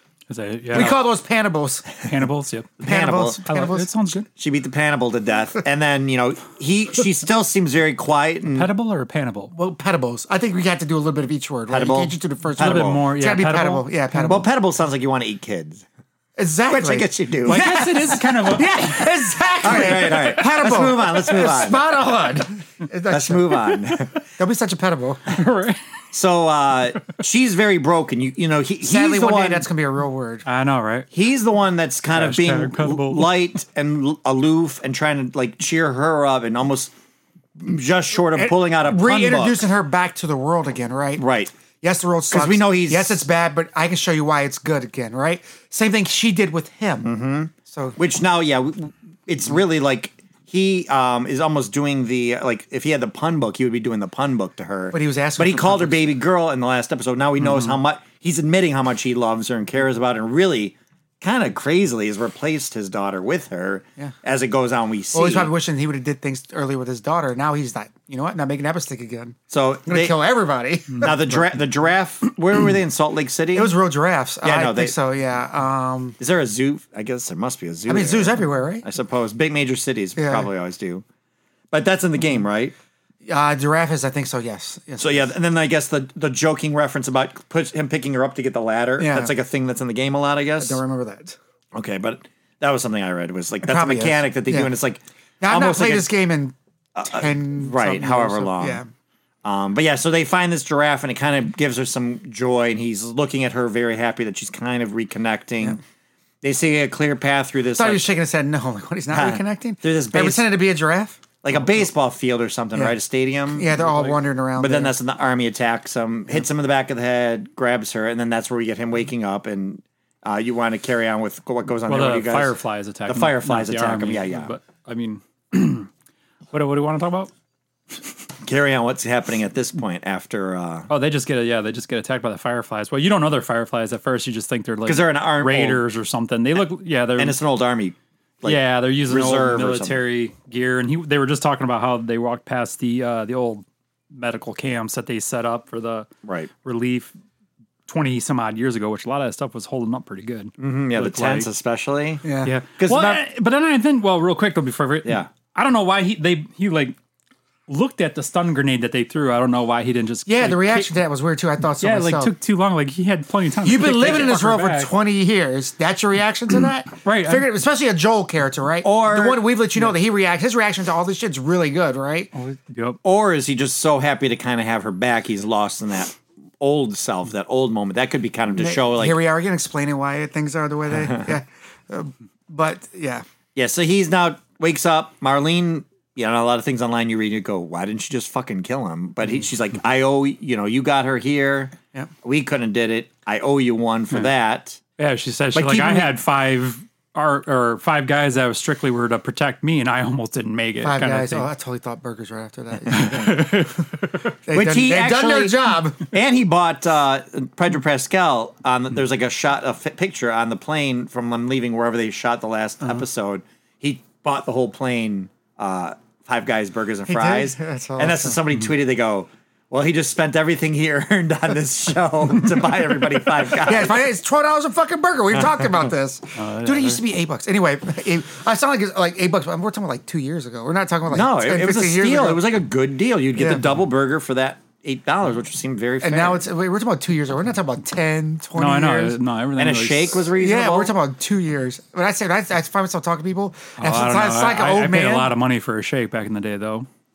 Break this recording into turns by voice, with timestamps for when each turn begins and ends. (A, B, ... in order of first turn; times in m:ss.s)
0:00.3-0:00.9 A
0:00.7-0:02.0 B
0:02.0-0:02.8 A
0:02.8-0:03.4 C
0:02.8-0:04.1 B
0:03.4-0:04.2 A
0:04.3-0:08.7 C
0:08.5-0:09.5 A
0:09.5-0:14.5 B
0:11.7-0:13.0 C
0:12.6-0:13.9 A
0:14.2-0:15.8 C
0:16.4-0:23.8 B
0:16.7-0:17.7 C
0:17.4-0:19.4 A
0:19.6-0:21.9 C
0:23.1-0:24.2 C
0:24.4-0:25.3 B
0:25.3-0:25.8 A
0:26.1-0:29.7 C
0:28.8-0:30.4 B
0:30.4-0:31.1 A
0:31.1-0:36.9 C
0:32.1-0:33.3 A
0:37.6-0:39.6 C
0:38.3-0:41.2 B
0:41.2-0:41.5 C
0:41.8-0:47.1 B
0:42.3-0:43.2 C
0:47.0-1:05.5 C
0:47.6-0:48.0 B
0:54.9-0:56.0 B
0:57.4-0:57.8 A
1:05.1-1:11.4 B
1:09.5-1:10.2 C
1:11.0-1:13.7 C
1:13.5-1:16.2 B
1:14.4-1:14.9 C
1:16.2-1:21.0 C
1:17.9-1:18.8 B
1:20.2-1:20.5 B
1:21.7-1:22.7 C
1:23.2-1:25.3 B
1:25.0-1:30.8 C
1:29.0-1:29.3 B
1:30.6-1:31.4 B
1:31.7-1:36.1 C
1:33.6-1:34.7 B
1:35.4-1:38.9 B
1:37.0-1:38.8 C
1:39.4-1:45.8 C
1:46.4-1:48.1 C
1:47.8-1:51.2 B
1:49.1-1:50.5 C
1:51.4-1:53.7 C
1:53.5-1:54.9 B
1:53.8-1:54.1 A
1:54.6-2:02.5 C
2:01.9-2:05.9 A
2:03.1-2:04.5 C
2:06.5-2:07.3 A
2:08.4-2:10.9 C
2:10.9-2:17.4 A
2:14.8-2:15.8 C
2:17.2-2:20.0 C
2:18.4-2:26.1 A
2:26.2-2:26.5 C
2:26.6-2:27.1 A
2:27.9-2:31.5 A
2:30.6-2:32.2 C
2:32.2-2:32.5 B
2:32.4-2:37.0 A
2:32.8-2:33.2 C
2:35.0-2:35.3 C
2:37.7-2:40.9 A
2:40.3-2:42.3 B
2:41.8-2:44.9 A
2:43.6-2:52.3 B
2:47.0-2:47.5 A
2:48.8-2:49.4 C
2:52.3-2:53.0 A
2:53.0-2:59.2 C
2:58.6-3:03.2 B
3:03.5-3:14.8 C
3:15.0-3:21.4 A
3:15.5-3:16.1 C
3:20.8-3:23.7 B
3:22.9-3:24.2 A
3:24.4-3:26.0 B
3:24.5-3:44.0 C
3:37.1-3:38.4 B
3:43.6-3:52.5 B
3:46.4-3:47.0 A
3:51.1-3:56.4 C
3:53.4-3:53.6 B
3:56.0-3:59.2 B
3:58.6-4:00.2 A
3:59.6-4:00.9 C
4:00.4-4:05.3 B
4:03.8-4:06.9 A